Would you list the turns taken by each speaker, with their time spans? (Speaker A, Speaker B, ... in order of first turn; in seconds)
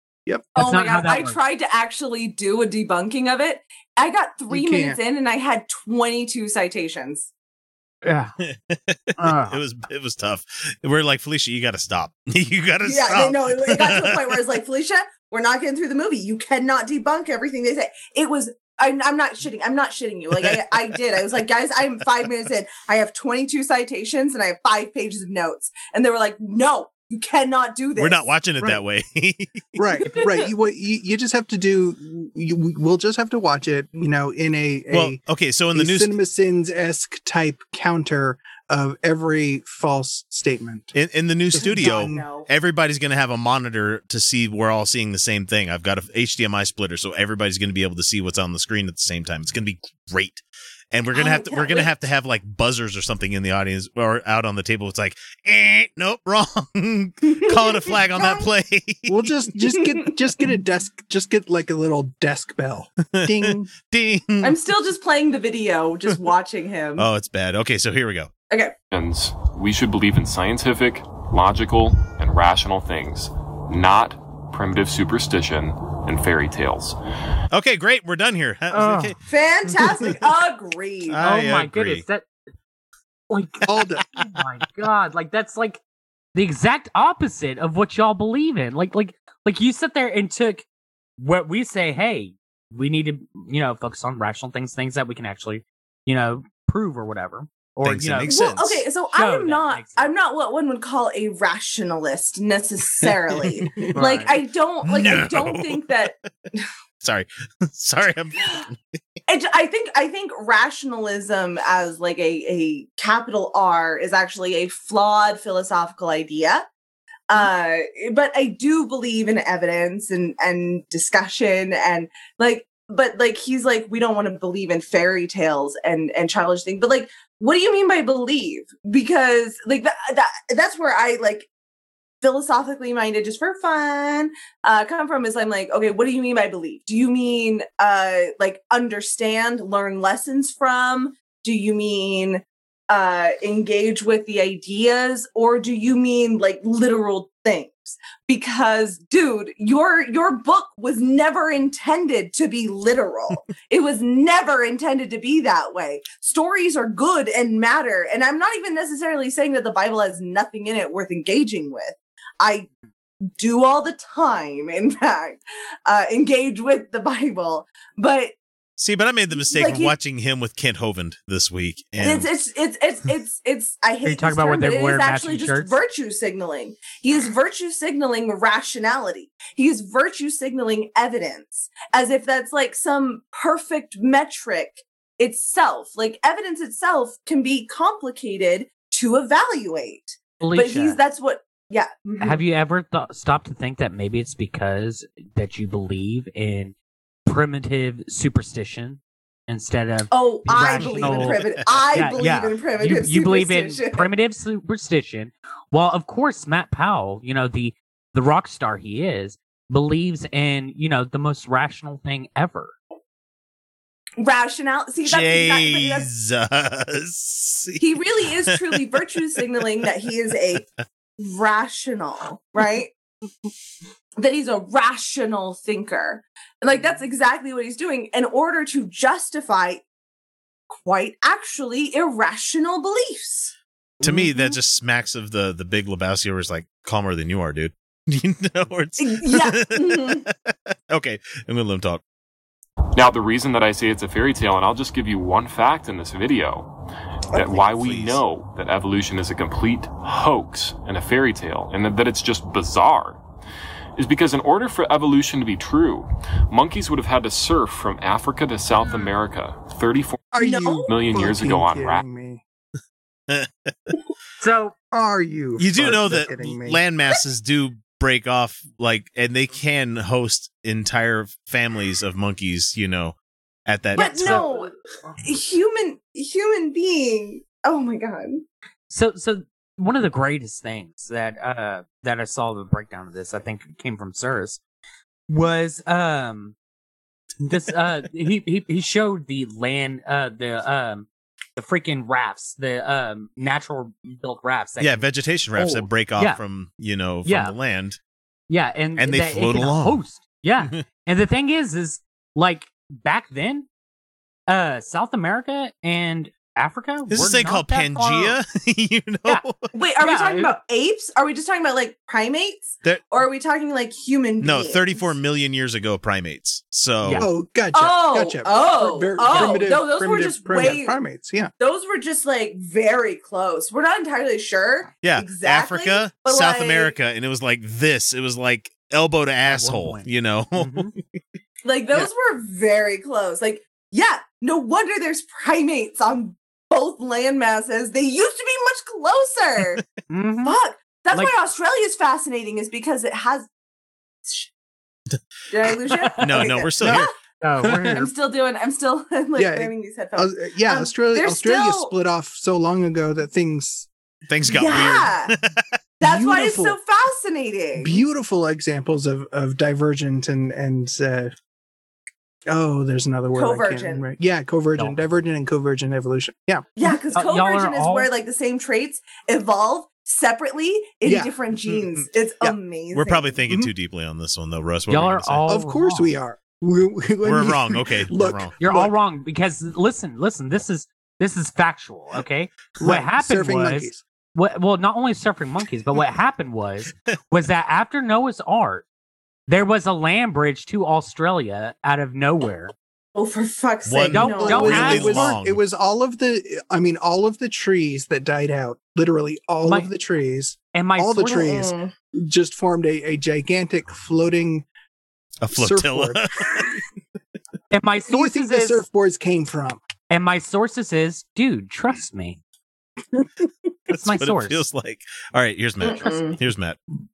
Speaker A: 0.6-7.3, 12.8-28.3, 30.0-30.5, 41.6-42.5, 51.1-51.9, 57.5-58.5, 64.4-67.1, 79.3-81.2, 98.3-106.6, 109.3-116.7, 117.3-131.5, 132.2-162.7, 163.4-168.4, 169.3-169.9, 172.0-192.4, 200.1-204.1, 214.2-216.1, 217.8-222.9, 224.2-229.8, 230.7-233.5, 239.0-240.3, 260.4-261.2, 274.0-278.4, 309.7-315.1, 317.7-321.0, 321.6-326.9, 331.6-339.9, 340.4-343.5, 344.2-344.5, 345.5-347.1, 347.9-351.9, 354.5-355.4, 356.0-358.0, 363.4-364.1, 366.8-373.4, 393.1-395.2, 401.2-401.9, 415.8-416.4
Speaker B: 0.6-1.4, 8.0-8.3, 9.2-9.6, 78.7-79.2, 81.2-82.3, 83.3-85.8, 86.3-90.7, 91.2-98.3, 99.1-100.1, 103.9-104.3, 174.0-175.8, 190.4-191.0, 192.2-196.8, 197.3-212.7, 234.0-234.6, 264.4-264.8, 273.9-274.7, 278.9-284.6, 285.3-286.6, 287.4-296.4, 297.2-297.6, 298.5-303.7, 304.5-308.4, 310.0-310.5, 317.0-317.3, 319.3-319.6, 329.4-330.9, 340.1-340.6, 346.1-346.5, 347.4-348.1, 364.8-365.0, 367.1-368.1, 374.9-376.1, 378.6-388.9, 389.5-392.7, 394.1-395.3, 400.7-401.4, 407.7-408.9, 410.1-412.4, 413.9-414.6
Speaker C: 4.5-5.0, 29.8-35.2, 35.7-41.0, 41.5-42.3, 59.1-63.7, 83.7-84.0, 260.3-262.4, 264.9-266.8, 317.2-321.5, 347.6-348.1, 349.4-353.9, 354.6-354.9, 356.0-356.8, 357.8-361.3, 362.5-366.6, 371.0-371.3, 375.5-378.9, 382.8-384.0, 394.4-404.7, 405.5-406.6, 408.1-409.8
Speaker D: 8.4-14.4, 20.4-20.8, 28.0-29.7, 34.9-36.1, 40.9-59.3, 63.0-64.6, 67.0-68.3, 77.5-79.2, 79.7-80.2, 81.1-82.1, 97.8-98.8, 104.9-106.0, 107.0-108.8, 168.8-172.3, 200.8-201.8, 215.0-219.0, 234.0-242.0, 247.4-248.2, 263.3-263.7, 265.6-273.2, 273.7-274.4, 294.8-298.0, 299.0-300.0, 307.1-309.7, 314.4-317.3, 325.0-331.0, 346.2-347.1, 354.3-355.6, 372.9-375.5, 377.2-378.6, 393.9-395.6, 405.4-406.6, 413.9-416.8
Speaker E: 68.9-77.0, 242.9-253.2, 254.0-260.2, 260.9-262.0